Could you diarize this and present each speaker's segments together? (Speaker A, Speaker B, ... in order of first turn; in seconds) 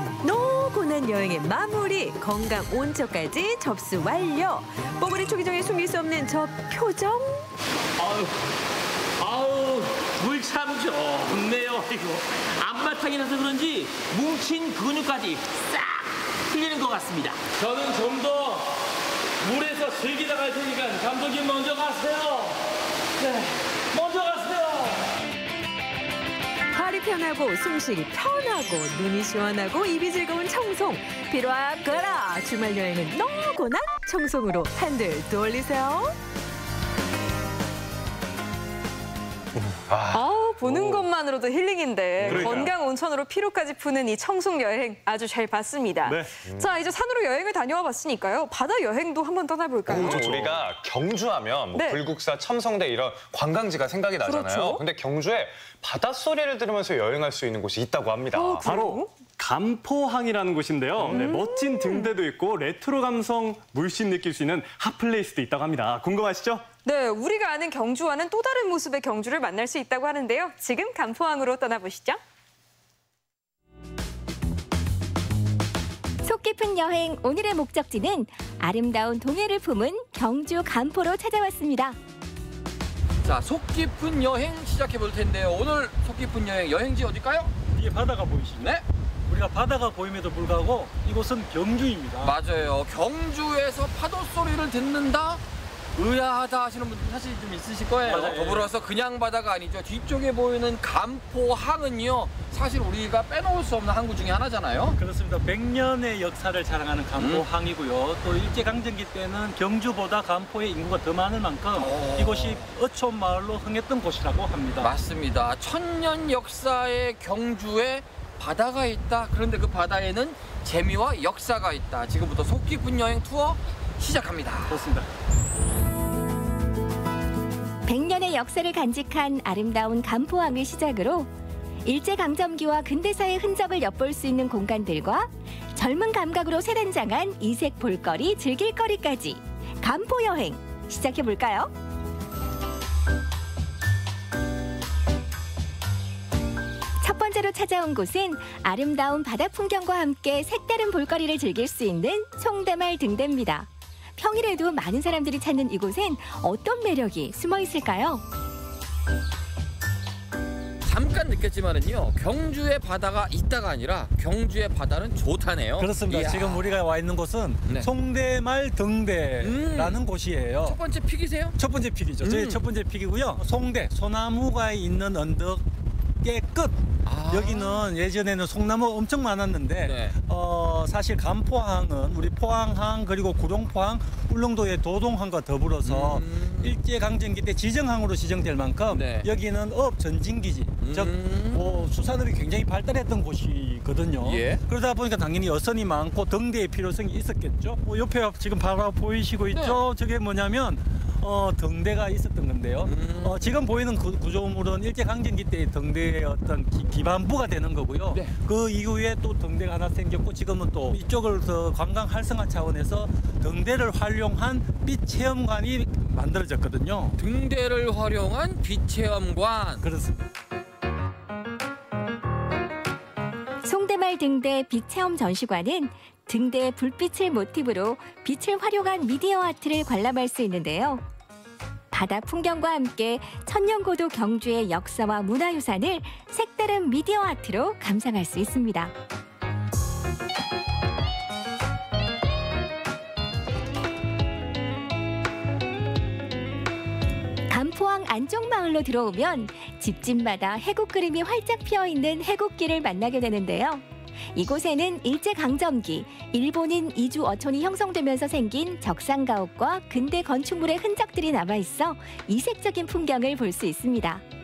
Speaker A: 0.2-7.5, 26.7-36.1
Speaker B: 8.0-8.4, 9.2-18.7, 19.4-22.6, 23.2-25.0
Speaker C: 39.7-41.0, 42.2-42.7, 46.0-46.3, 49.9-50.6, 58.6-66.6
Speaker D: 39.9-40.2, 42.2-42.6, 49.9-58.6
Speaker E: 40.1-50.2, 51.7-52.0, 54.2-54.8, 58.3-59.1, 61.0-62.1, 66.8-72.2
Speaker F: 76.2-82.0, 127.9-131.3, 131.8-141.7, 147.0-158.2, 223.6-231.0, 231.9-238.9, 247.5-264.2
Speaker G: 83.2-87.5, 92.2-95.4, 96.0-105.0, 107.2-107.5, 111.8-112.6, 114.8-124.8, 160.8-166.8, 167.6-167.9, 169.4-170.0, 170.6-171.6, 172.2-172.6, 177.0-177.9, 179.8-180.2, 185.8-186.8, 188.9-189.3, 190.8-191.9, 194.2-194.6, 199.5-199.8, 202.8-203.4, 217.2-219.8
Speaker H: 87.7-88.7, 89.3-92.3, 98.0-98.7, 105.0-114.9, 124.7-125.1, 165.8-170.8, 171.6-175.7, 176.2-217.2, 219.8-220.1